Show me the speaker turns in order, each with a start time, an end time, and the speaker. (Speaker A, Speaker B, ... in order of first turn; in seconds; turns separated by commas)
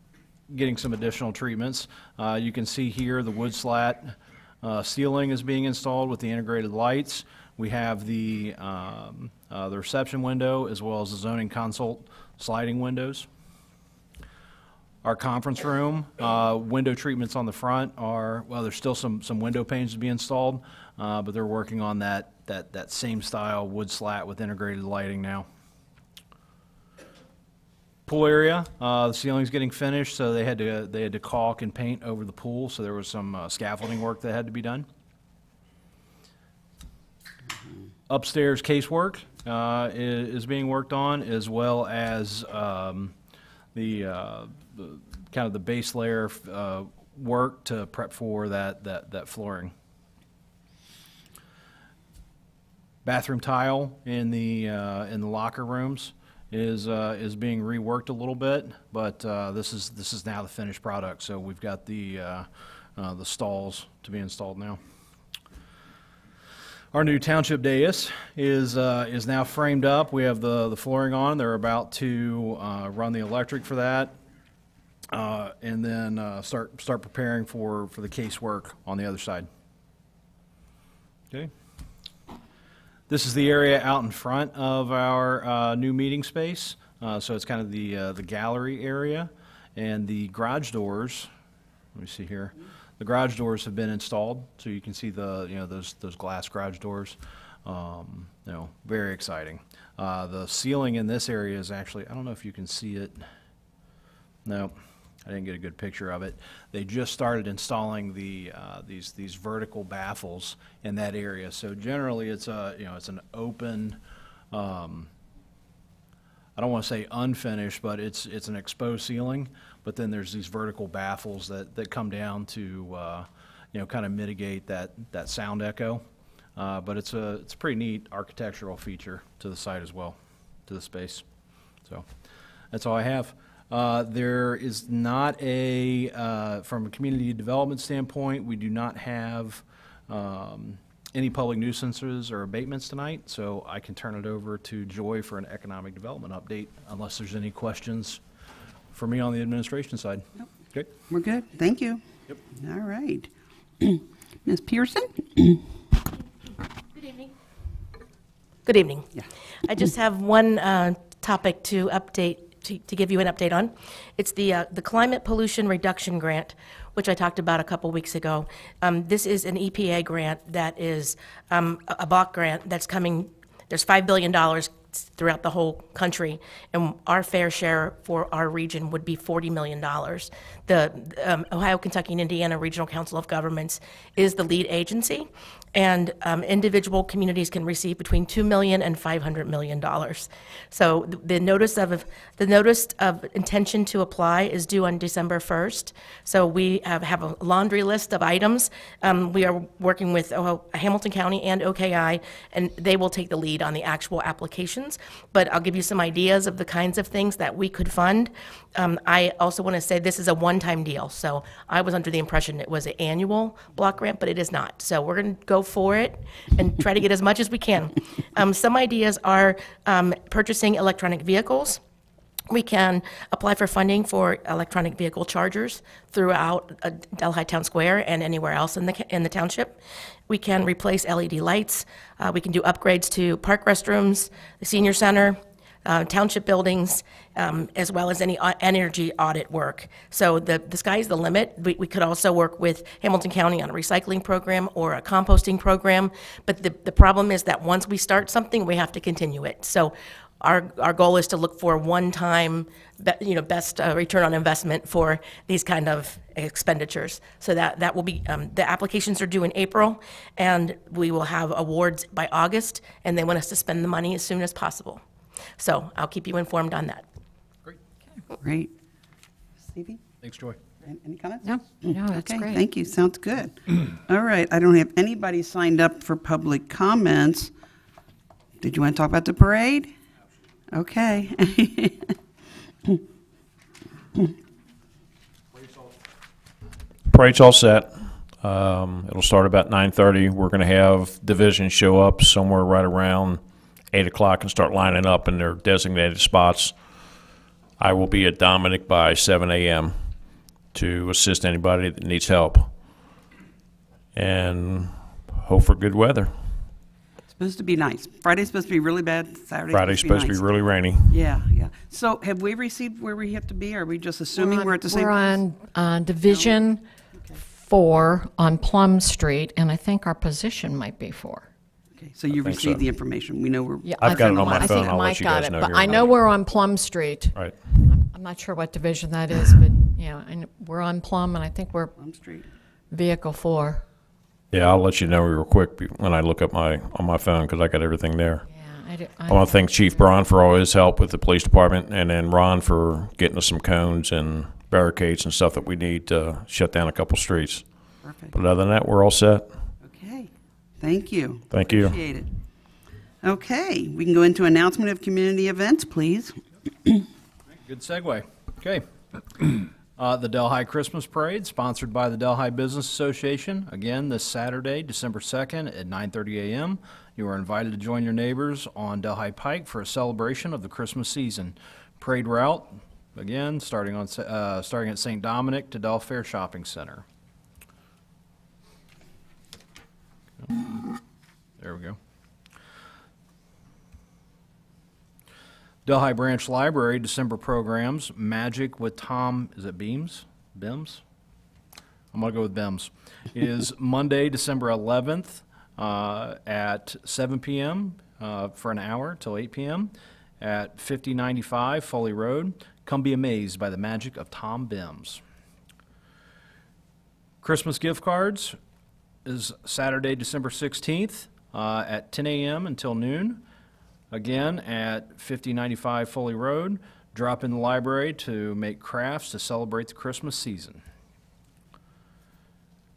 Speaker A: 0.5-13.3, Speaker A: 15.0-25.5, Speaker A: 28.1-34.9, Speaker A: 38.1-43.1, Speaker A: 43.7-49.7, Speaker A: 53.0-64.8, Speaker A: 66.9-74.2, Speaker A: 75.1-79.5, Speaker A: 83.1-91.3, Speaker A: 91.9-103.2, Speaker A: 104.4-114.0, Speaker A: 114.5-115.1, Speaker A: 116.6-126.0, Speaker A: 126.6-131.2, Speaker A: 131.8-132.1, Speaker A: 132.7-148.2, Speaker A: 148.9-150.9, Speaker B: 151.1-153.3, Speaker B: 153.8-155.6, Speaker C: 156.9-157.3, Speaker C: 158.6-159.1, Speaker C: 159.6-221.8, Speaker C: 222.5-265.0, Speaker C: 265.6-267.1, Speaker B: 268.4-268.7, Speaker B: 269.6-270.0, Speaker A: 270.2-270.6, Speaker B: 270.8-277.5, Speaker D: 271.4-272.6, Speaker B: 278.6-279.9, Speaker B: 280.7-282.1, Speaker E: 287.1-297.2, Speaker E: 297.8-303.1, Speaker E: 304.1-306.7, Speaker B: 307.3-310.5, Speaker E: 309.7-311.2, Speaker B: 311.1-315.4, Speaker D: 314.4-316.9, Speaker B: 316.3-316.6, Speaker D: 317.5-321.5, Speaker B: 322.0-325.1, Speaker E: 322.3-322.9, Speaker D: 323.8-331.9, Speaker E: 324.0-326.2, Speaker E: 327.3-327.6, Speaker B: 332.0-332.4, Speaker D: 332.9-333.8, Speaker E: 334.5-338.5, Speaker D: 338.5-340.2, Speaker E: 339.2-349.8, Speaker B: 348.0-348.4, Speaker B: 349.8-352.3, Speaker E: 351.5-352.0, Speaker B: 353.2-356.4, Speaker A: 357.6-358.8, Speaker A: 359.4-377.0, Speaker A: 380.4-380.7, Speaker A: 381.6-382.0, Speaker A: 385.9-391.0, Speaker A: 392.1-405.2, Speaker A: 407.4-408.6, Speaker A: 409.2-413.4, Speaker A: 414.1-420.8